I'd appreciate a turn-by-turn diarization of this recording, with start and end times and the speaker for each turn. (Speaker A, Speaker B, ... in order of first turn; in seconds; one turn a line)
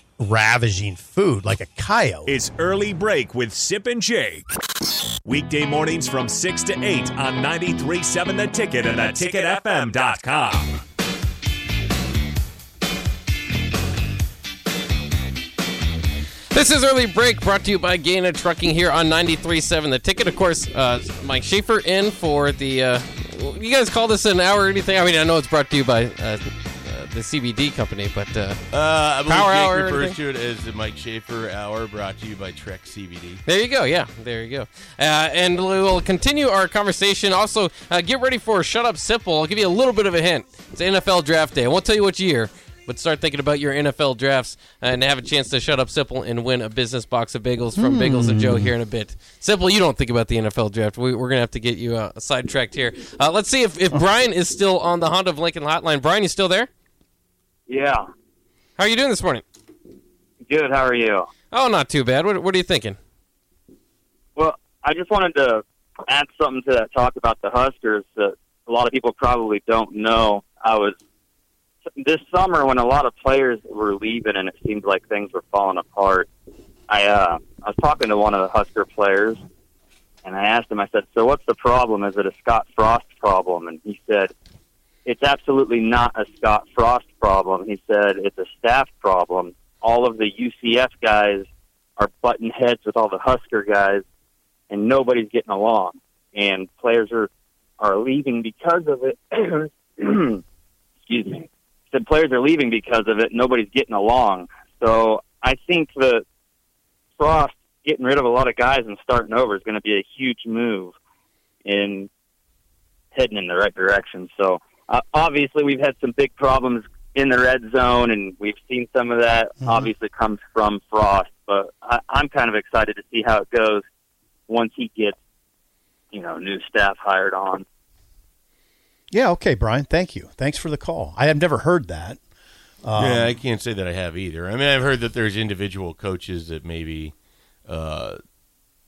Speaker A: 0.2-2.4
Speaker B: 2.3-4.5
Speaker B: 5.2-10.8
Speaker C: 16.5-28.6
Speaker D: 28.7-33.4
Speaker C: 29.3-30.2
Speaker C: 33.5-56.7
Speaker A: 47.8-48.8
Speaker E: 57.7-58.0
Speaker C: 58.8-59.4
Speaker E: 60.5-61.3
Speaker C: 61.5-63.0
Speaker E: 64.4-71.0
Speaker E: 71.9-76.3
Speaker E: 76.9-79.4
Speaker E: 80.2-84.3
Speaker E: 85.1-91.5
Speaker E: 92.0-94.0
Speaker E: 94.7-97.3
Speaker E: 97.8-100.4
Speaker E: 101.1-106.2
Speaker E: 107.2-110.9
Speaker E: 111.7-112.1
Speaker E: 113.1-123.8
Speaker A: 119.6-119.9
Speaker E: 124.5-125.2
Speaker E: 126.1-127.7
Speaker A: 129.1-132.2
Speaker A: 132.8-133.3
Speaker D: 132.9-137.1
Speaker D: 137.7-138.2